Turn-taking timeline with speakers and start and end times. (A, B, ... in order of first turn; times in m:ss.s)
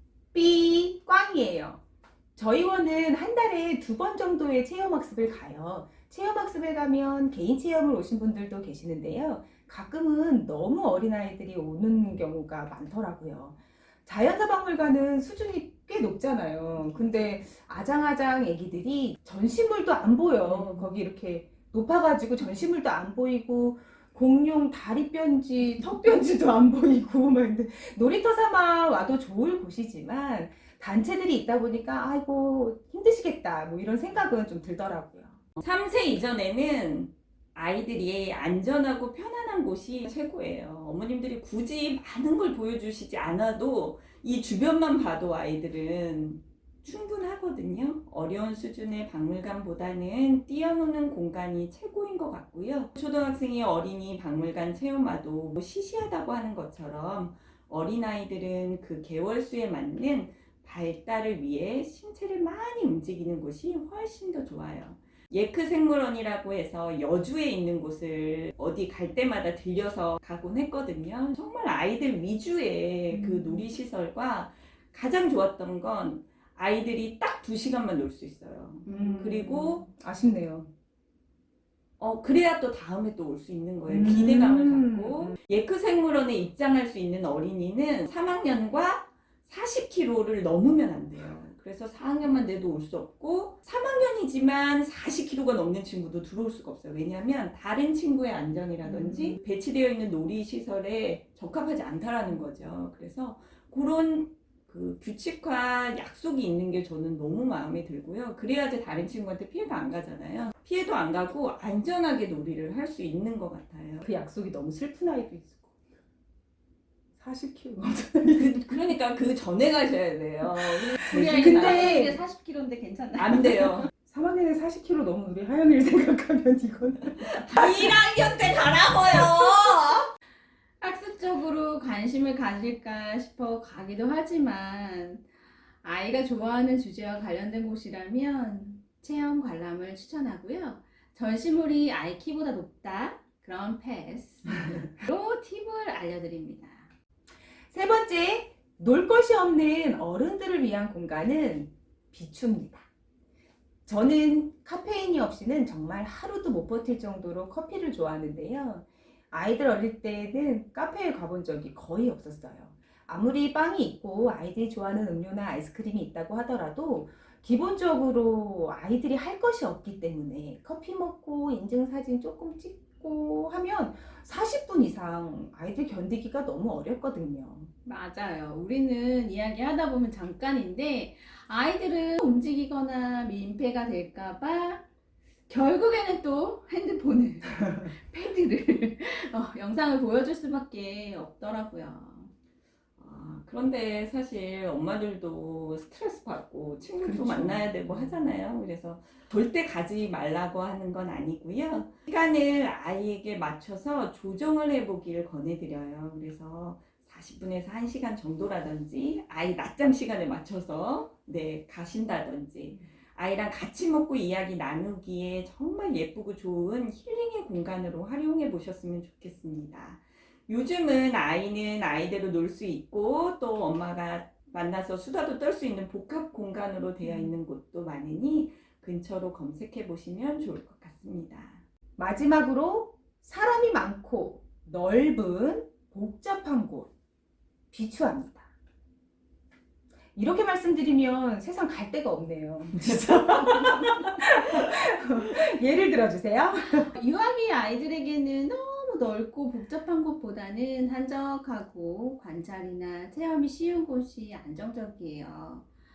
0:00.3-0:01.8 A
0:02.4-0:35.4 A
0:20.4-0:20.9 B
0:35.6-1:19.8 B
1:13.1-1:13.6 A
1:18.8-1:20.7 A
1:22.0-1:54.0 B
1:23.9-1:25.4 A
1:38.8-1:39.4 A
1:54.0-1:55.7 A
1:57.2-1:58.8 A
1:58.3-2:02.0 B
2:00.5-2:02.2 A
2:01.1-2:03.8 C
2:03.2-2:03.9 B
2:04.0-2:08.0 A
2:07.4-2:10.1 B
2:10.8-2:15.2 C
2:15.8-2:26.9 C
2:27.7-2:32.9 A
2:33.9-2:57.7 A
2:57.8-3:04.8 C
3:05.5-3:12.3 C
3:13.0-3:51.6 B
3:17.0-3:18.1 A
3:47.0-3:47.3 A
3:52.0-3:56.9 A
3:57.7-3:58.5 A
4:00.1-4:06.9 A
4:02.8-4:04.4 B
4:06.7-4:15.7 C